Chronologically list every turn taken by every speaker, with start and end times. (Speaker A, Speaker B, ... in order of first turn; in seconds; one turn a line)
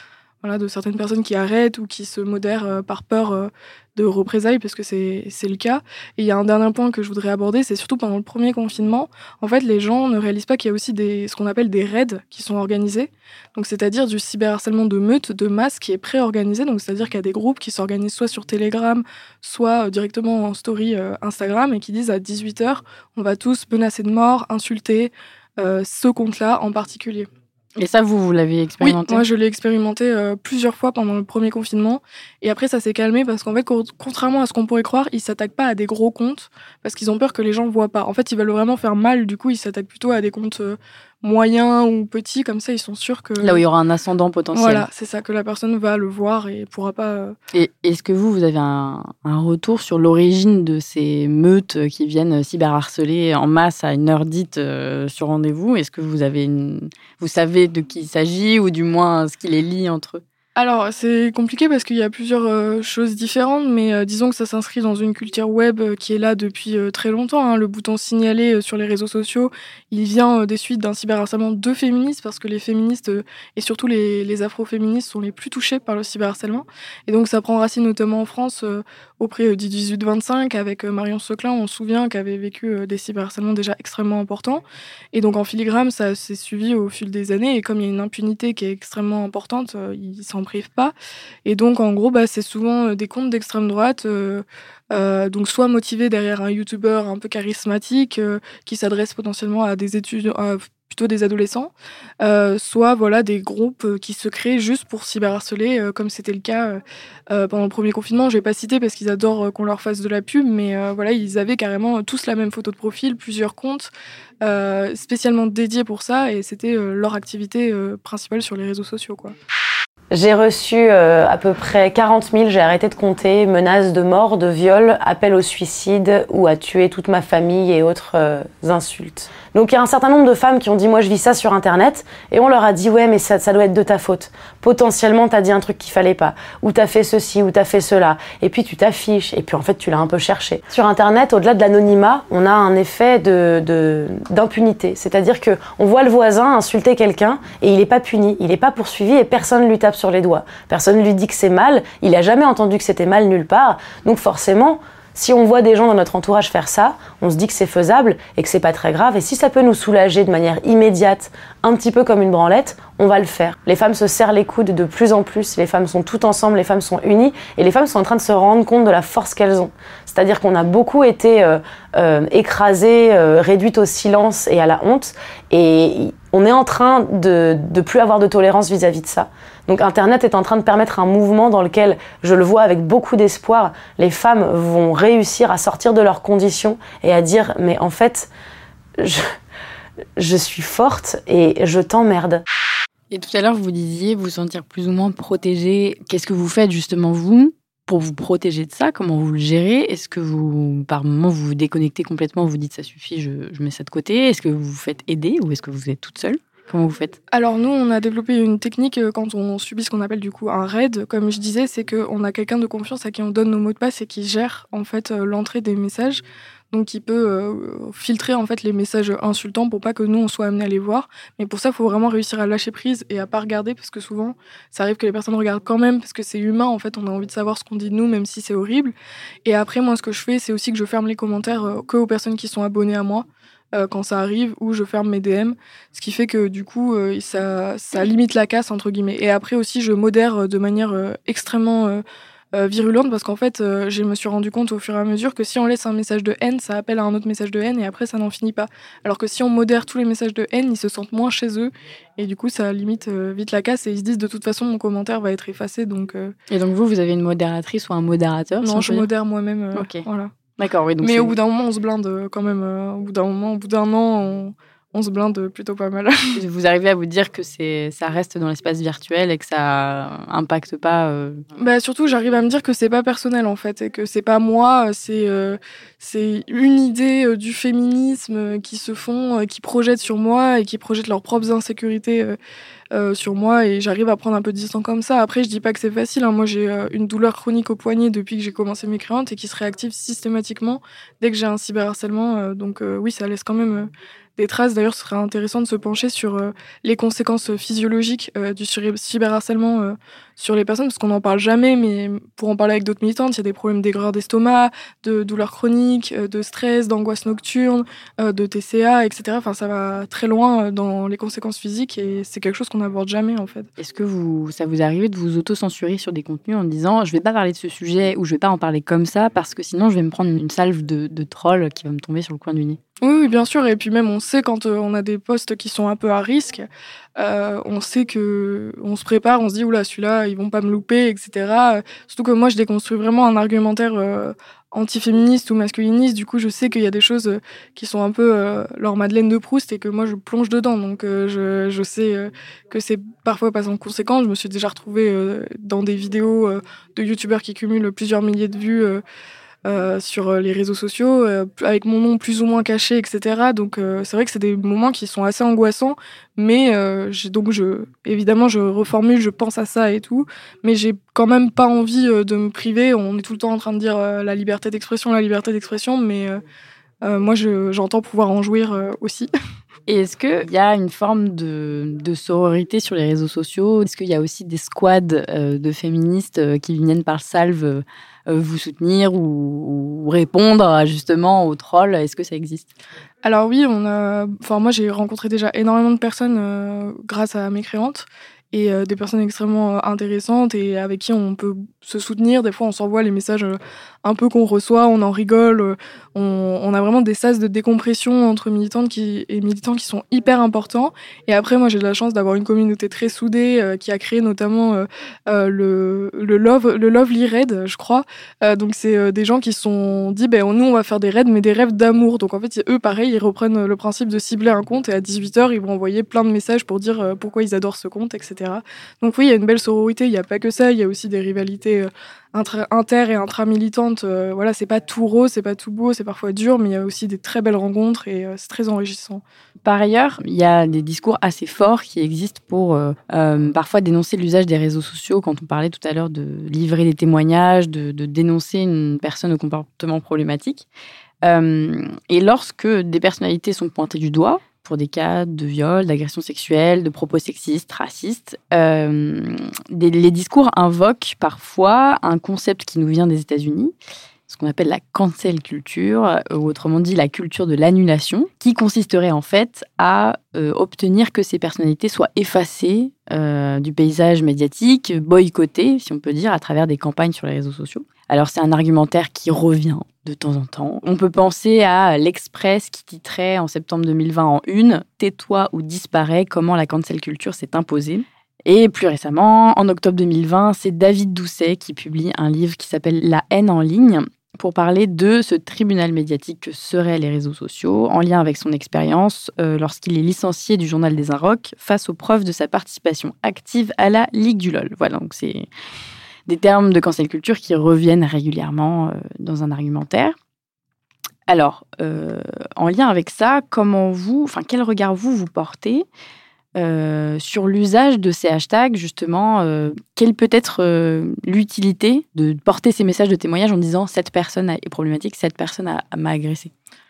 Speaker A: 0.4-27.3
Speaker B: 27.8-29.2
Speaker A: 28.8-43.6
Speaker B: 43.4-44.9
Speaker A: 44.5-47.4
Speaker B: 47.5-60.2
Speaker A: 60.5-90.9
Speaker A: 91.4-113.9
Speaker A: 114.4-119.3
Speaker C: 120.1-188.3
Speaker C: 189.0-189.3
Speaker C: 190.2-192.4
Speaker B: 193.1-207.2
Speaker A: 207.3-256.3
Speaker B: 256.5-259.1
Speaker A: 258.6-260.3
Speaker B: 259.7-260.0
Speaker B: 260.6-261.3
Speaker A: 261.0-266.4
Speaker B: 266.4-271.4
Speaker A: 271.6-282.4
Speaker A: 282.9-313.7
Speaker B: 313.8-322.8
Speaker A: 323.0-349.0
Speaker A: 349.6-366.4
Speaker A: 367.0-369.3
Speaker B: 369.9-382.7
Speaker A: 383.2-429.2
Speaker B: 429.6-440.7
Speaker B: 441.2-453.7
Speaker B: 454.3-495.5
Speaker B: 496.3-500.2
Speaker B: 501.3-505.9
Speaker B: 506.6-516.5